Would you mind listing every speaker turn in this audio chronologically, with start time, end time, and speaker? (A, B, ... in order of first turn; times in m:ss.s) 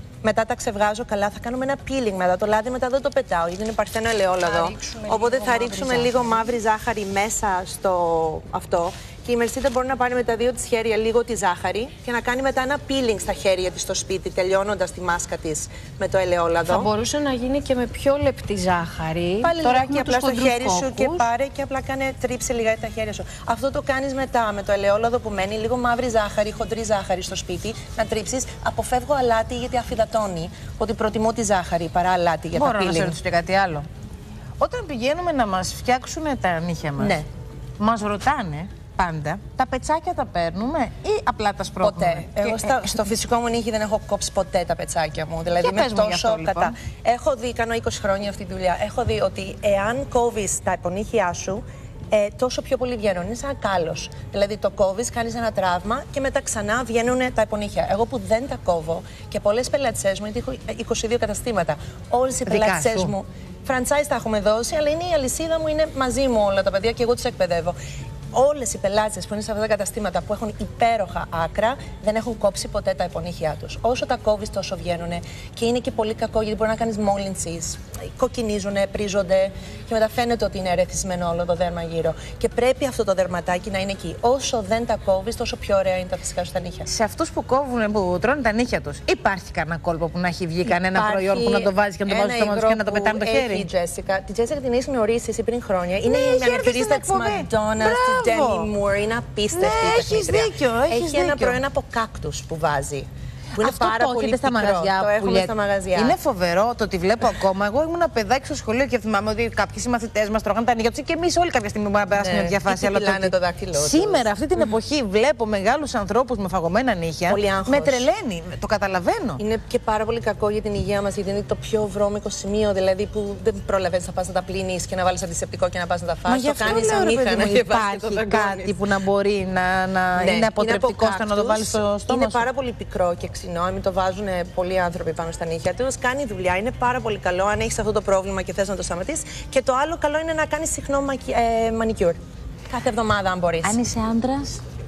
0:00.2-0:16.9 A
0:04.4-0:06.6 B
0:16.7-0:19.5 B
0:19.4-0:33.2 A
0:19.6-0:21.2 C
0:32.5-0:33.9 C
0:34.6-0:37.2 C
0:37.0-0:37.3 A
0:37.8-0:43.0 C
0:41.8-1:07.8 A
0:45.6-0:46.7 C
1:02.4-1:03.1 C
1:08.3-1:26.9 A
1:26.9-1:33.7 C
1:30.6-1:46.2 A
1:36.0-1:38.7 C
1:39.5-1:41.6 C
1:43.6-1:59.4 C
1:52.1-1:54.3 A
1:57.3-1:58.0 A
1:59.4-2:08.8 A
2:06.2-2:12.4 C
2:10.2-2:22.2 A
2:22.7-2:23.8 A
2:23.6-2:24.6 C